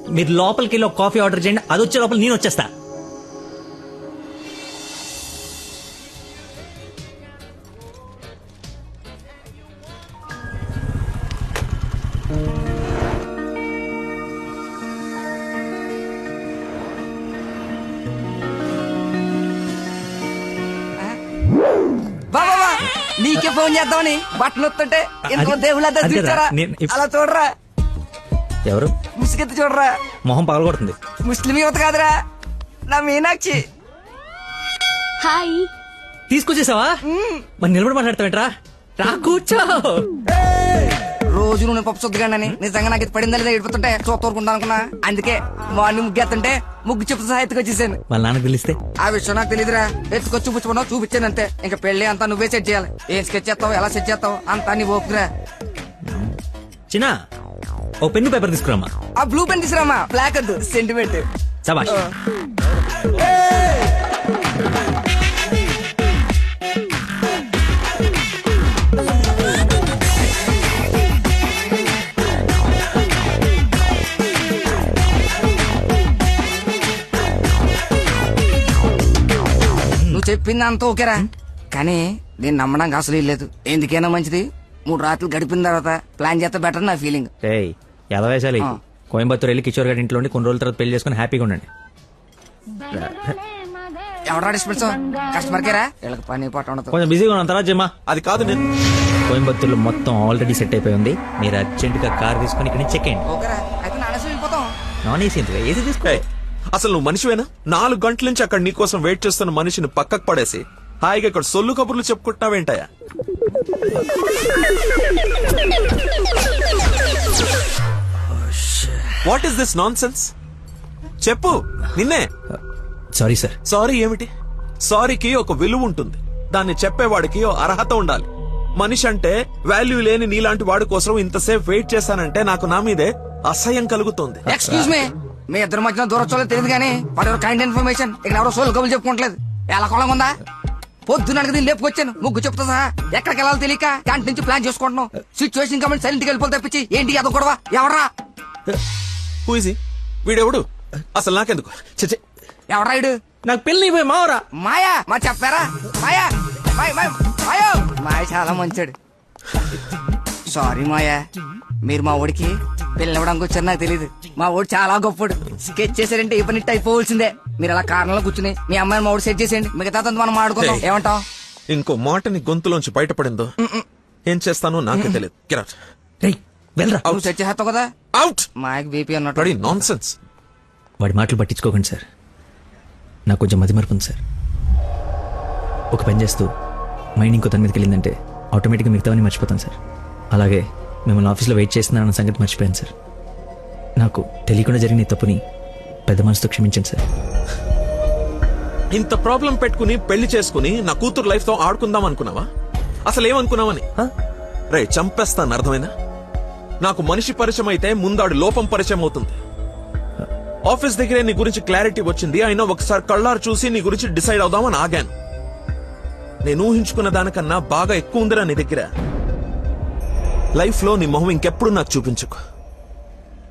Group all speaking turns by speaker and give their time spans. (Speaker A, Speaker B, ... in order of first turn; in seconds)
Speaker A: 0.1-2.7, 25.3-26.9, 28.6-28.9, 30.2-30.9, 36.3-37.0, 37.6-40.0, 48.1-48.8, 56.0-56.3, 58.0-58.9, 61.6-62.0, 87.4-91.7, 92.9-93.3, 96.9-97.9, 99.3-103.2, 105.0-106.2, 123.2-123.5, 134.5-134.9, 153.4-154.4, 176.2-177.1, 181.0-182.0, 183.3-184.2, 185.9-186.5, 187.2-189.8, 190.3-192.9, 194.0-195.4, 196.1-197.0
Speaker B: 22.3-27.5, 29.2-29.9, 31.2-32.1, 32.9-33.6, 37.1-37.4, 41.3-48.0, 49.0-55.3, 59.2-61.3, 80.1-87.3, 94.3-96.9, 103.3-104.7, 134.5-140.3, 141.1-148.1, 152.7-153.1, 154.6-158.9, 160.5-161.2, 161.8-171.2, 177.1-177.9, 178.6-179.8
Speaker C: 98.1-98.6, 106.7-112.9, 119.2-120.3, 121.2-122.2, 123.7-124.3, 124.8-128.3, 128.8-134.5, 149.4-150.6, 151.1-152.2, 170.6-170.8, 171.7-173.5, 174.3-175.8, 178.1-178.5, 179.3-180.2, 198.9-202.5, 203.1-203.8, 204.7-205.9, 206.8-209.4, 210.7-215.1, 216.4-218.9, 220.6-222.4